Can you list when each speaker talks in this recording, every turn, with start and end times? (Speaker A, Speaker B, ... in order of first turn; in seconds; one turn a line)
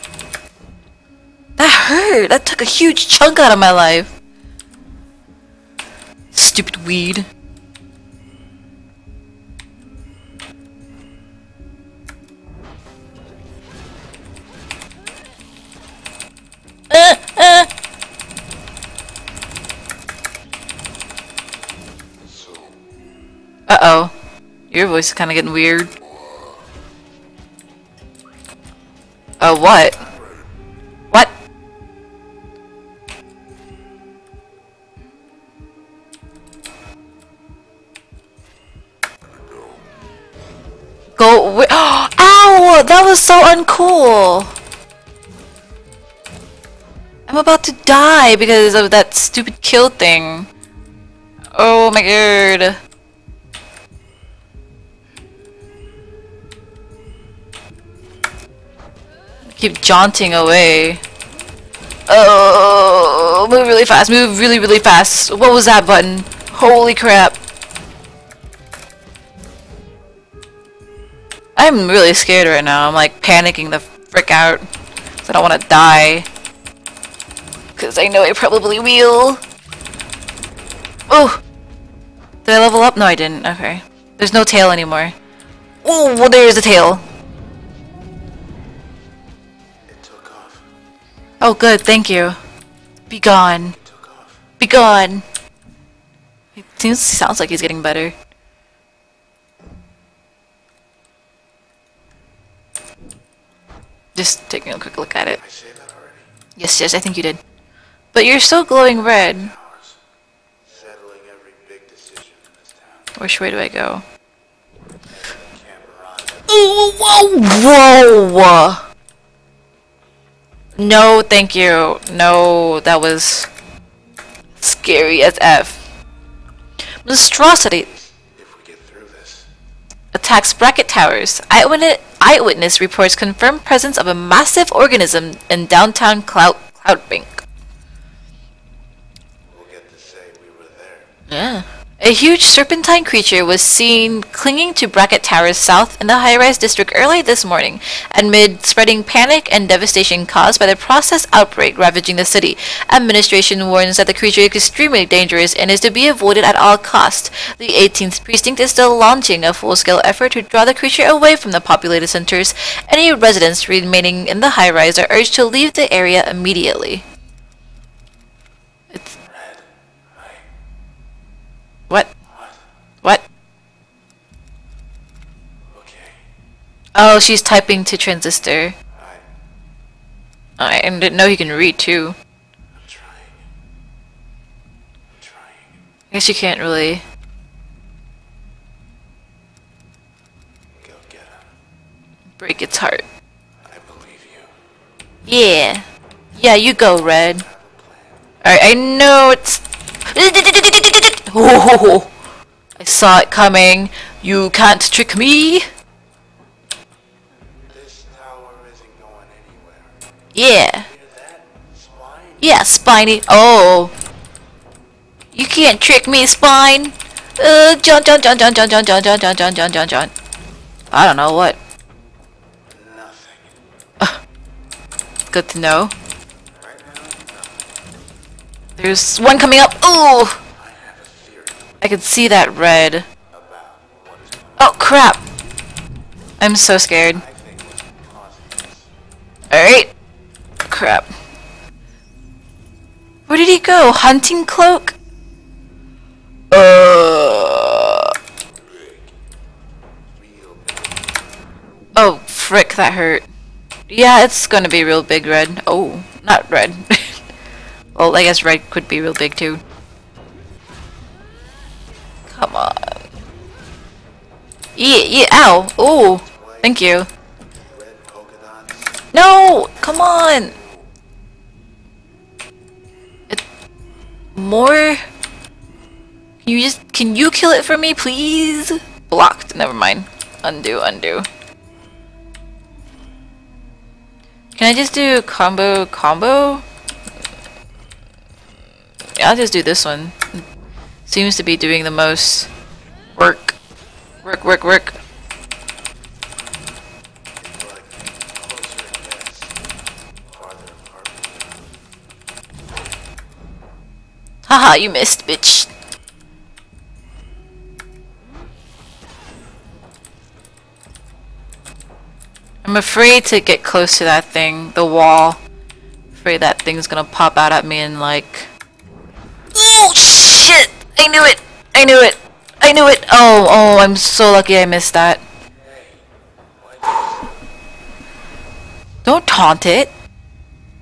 Speaker A: 1.6-4.1
Speaker A: 6.3-7.2
Speaker A: 16.9-17.7
Speaker B: 22.3-22.7
Speaker A: 23.7-24.1
Speaker A: 24.7-25.9
Speaker A: 29.4-30.0
Speaker A: 41.2-44.5
Speaker A: 47.3-50.5
Speaker A: 51.5-52.8
Speaker A: 59.5-61.0
Speaker A: 62.1-67.4
Speaker A: 71.5-74.6
Speaker A: 75.2-76.3
Speaker A: 77.8-79.4
Speaker A: 81.1-81.4
Speaker A: 82.4-85.1
Speaker A: 85.8-87.0
Speaker B: 89.9-90.7
Speaker A: 91.4-92.4
Speaker A: 93.1-93.8
Speaker B: 93.7-94.4
Speaker A: 94.6-95.2
Speaker A: 96.5-98.1
Speaker A: 104.1-105.4
Speaker B: 105.4-106.3
Speaker A: 106.6-107.4
Speaker A: 108.1-109.5
Speaker B: 109.0-110.0
Speaker B: 110.6-113.1
Speaker A: 113.2-114.0
Speaker B: 115.2-116.6
Speaker A: 116.5-118.8
Speaker A: 120.8-123.5
Speaker A: 124.6-125.8
Speaker A: 127.0-127.9
Speaker B: 127.9-129.5
Speaker A: 130.1-137.4
Speaker B: 139.5-141.1
Speaker A: 141.3-167.0
Speaker B: 169.2-170.4
Speaker B: 172.3-172.6
Speaker B: 175.7-176.2
Speaker A: 176.9-178.8
Speaker B: 178.9-179.2
Speaker A: 180.6-182.2
Speaker B: 182.7-183.4
Speaker B: 185.1-185.8
Speaker A: 186.1-187.0
Speaker B: 190.8-191.5
Speaker A: 192.4-193.0
Speaker B: 193.7-194.5
Speaker A: 195.3-197.4
Speaker B: 196.9-198.2
Speaker A: 198.4-202.1
Speaker A: 202.8-205.6
Speaker B: 207.7-209.9
Speaker A: 210.3-210.9
Speaker B: 210.8-212.5
Speaker A: 212.4-213.9
Speaker A: 215.3-220.1
Speaker A: 220.9-221.6
Speaker B: 222.7-223.6
Speaker A: 225.3-225.9
Speaker B: 226.5-227.6
Speaker A: 228.8-230.4
Speaker B: 230.5-231.7
Speaker A: 231.8-233.1
Speaker B: 233.3-234.7
Speaker A: 234.6-235.2
Speaker A: 236.4-237.2
Speaker B: 237.1-238.9
Speaker A: 239.5-239.9
Speaker A: 240.7-241.1
Speaker A: 243.3-244.9
Speaker A: 246.5-248.1
Speaker B: 250.1-251.0
Speaker A: 251.9-253.2
Speaker A: 253.9-257.2
Speaker A: 257.9-259.6
Speaker A: 262.3-263.0
Speaker A: 264.8-267.1
Speaker B: 266.2-266.8
Speaker B: 267.6-269.0
Speaker A: 269.1-270.6
Speaker A: 274.4-275.0
Speaker A: 276.4-281.3
Speaker A: 284.6-286.6
Speaker A: 289.2-290.4
Speaker A: 291.1-292.5
Speaker A: 293.1-293.5
Speaker A: 294.2-294.9
Speaker B: 297.4-299.5
Speaker B: 300.3-301.6
Speaker A: 304.5-305.7
Speaker A: 312.6-315.4
Speaker A: 316.1-318.5
Speaker A: 319.5-325.2
Speaker B: 325.6-327.4
Speaker A: 329.0-329.9